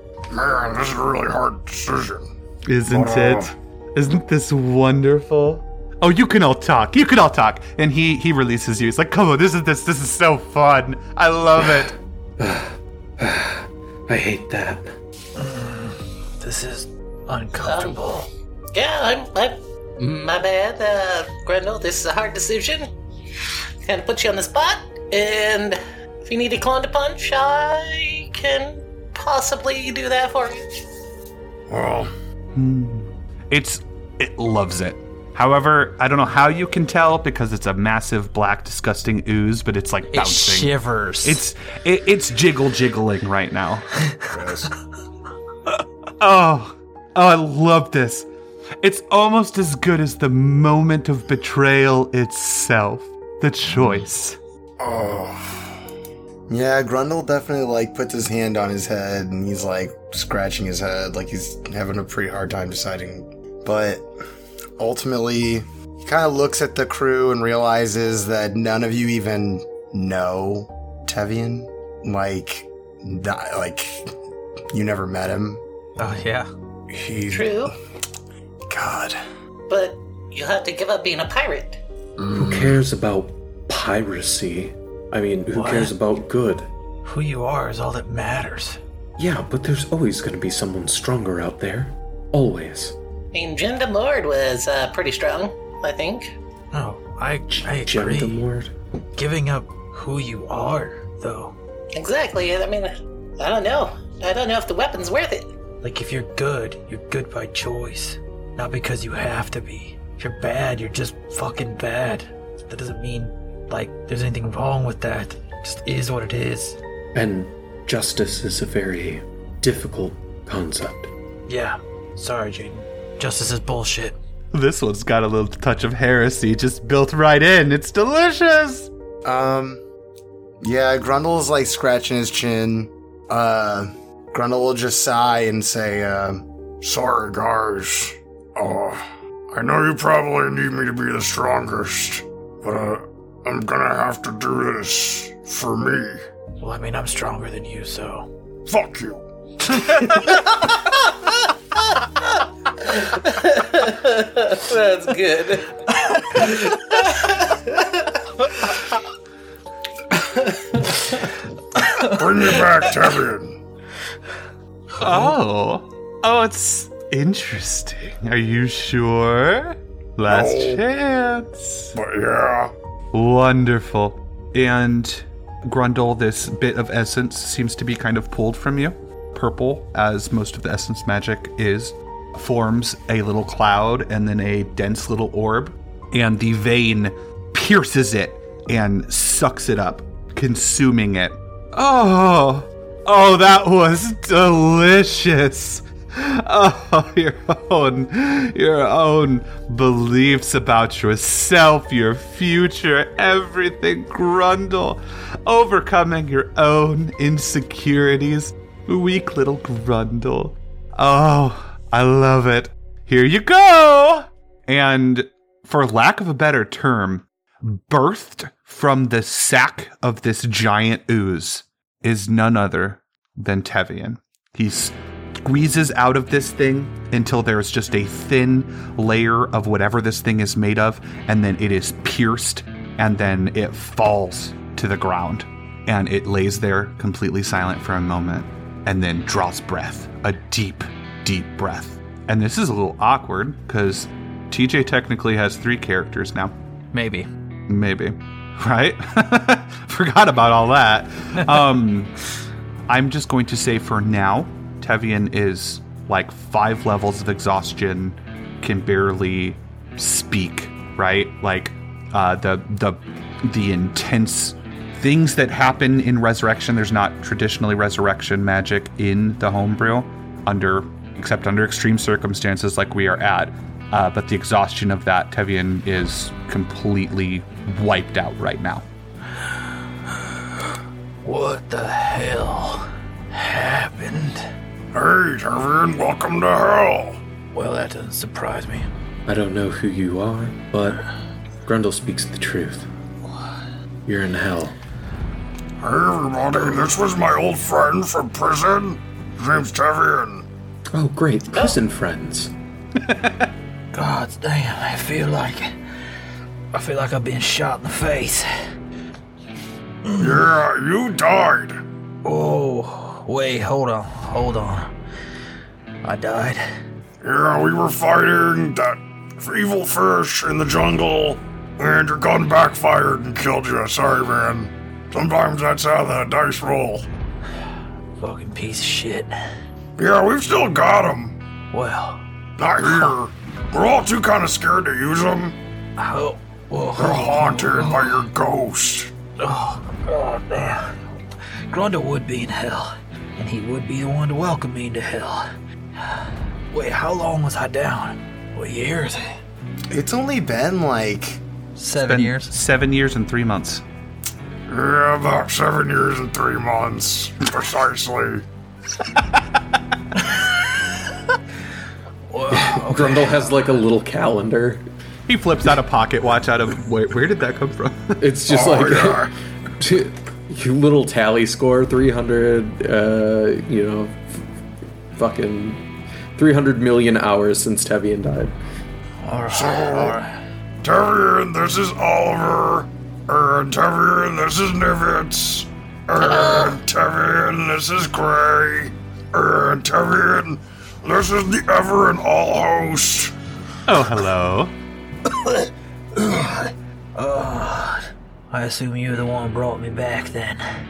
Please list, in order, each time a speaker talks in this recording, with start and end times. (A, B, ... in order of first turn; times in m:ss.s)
0:00.3-0:02.3 A
0:02.7-0:11.9 B
0:02.9-0:03.5 A
0:12.4-0:14.9 C
0:15.4-0:18.3 D
0:17.6-0:18.2 E
0:18.7-0:22.9 E
0:23.8-0:30.6 E
0:31.7-0:32.1 A
0:32.5-0:44.1 B
0:40.1-0:41.4 D
0:46.2-0:48.3 B
0:48.8-0:54.4 B
0:54.8-0:55.4 A
0:56.5-1:04.1 F
1:04.8-1:14.1 F
1:14.7-1:15.6 F
1:16.0-1:16.5 D
1:16.9-1:17.7 F
1:17.3-1:17.7 E
1:18.7-1:19.2 F
1:19.7-1:21.8 E
1:22.2-1:22.8 F
1:22.3-1:26.7 C
1:25.5-1:25.9 D
1:27.0-1:28.8 D
1:29.2-1:33.0 C
1:33.3-1:36.3 E
1:36.7-1:38.4 D
1:37.5-1:38.7 C
1:39.2-1:41.5 D
1:41.9-1:45.5 E
1:45.8-1:56.8 D
1:57.1-2:01.1 C
2:01.5-2:04.2 D
2:04.5-2:08.9 B
2:09.2-2:09.8 F
2:10.6-2:16.4 F
2:16.8-2:26.2 A
2:26.6-2:28.3 D
2:28.6-2:29.2 A
2:32.9-2:35.7 E
2:36.3-2:37.6 E
2:42.0-2:43.6 A
2:45.0-2:51.9 B
2:50.3-2:50.8 A
2:51.9-2:52.7 A
2:53.1-4:06.5 B
4:06.9-4:07.3 D
4:07.7-4:12.1 B
4:12.9-4:38.8 B
4:41.2-4:44.4 D
4:44.9-4:47.2 A
4:47.5-4:48.9 D
4:49.2-4:51.0 C
4:51.6-4:52.9 C
4:54.0-4:54.7 C
4:55.8-5:00.4 A
5:00.9-5:02.5 C
5:03.0-5:03.5 B
5:03.9-5:05.7 D
5:06.7-5:08.5 D
5:10.0-5:10.4 D
5:10.2-5:11.8 A
5:12.2-5:14.9 D
5:16.0-5:16.6 D
5:17.2-5:27.0 A
5:28.2-5:29.3 D
5:30.0-5:31.4 A
5:31.7-5:32.2 D
5:32.6-5:35.6 A
5:32.8-5:33.1 D
5:36.0-5:38.2 D
5:37.0-5:39.1 A
5:39.4-5:41.0 D
5:41.7-5:45.4 D
5:46.0-5:49.3 D
5:49.9-5:51.4 F
5:51.8-5:52.5 D
5:52.0-5:53.8 B
5:54.7-5:58.4 A
6:00.2-6:00.5 D
6:02.3-6:03.5 D
6:02.5-6:04.8 C
6:05.3-6:08.2 B
6:08.2-6:14.2 C
6:08.5-6:09.3 A
6:15.1-6:18.5 C
6:19.2-6:20.3 D
6:19.5-6:20.2 A
6:20.8-6:33.3 A
6:26.2-6:26.7 E
6:33.9-6:34.7 B
6:36.2-6:40.6 D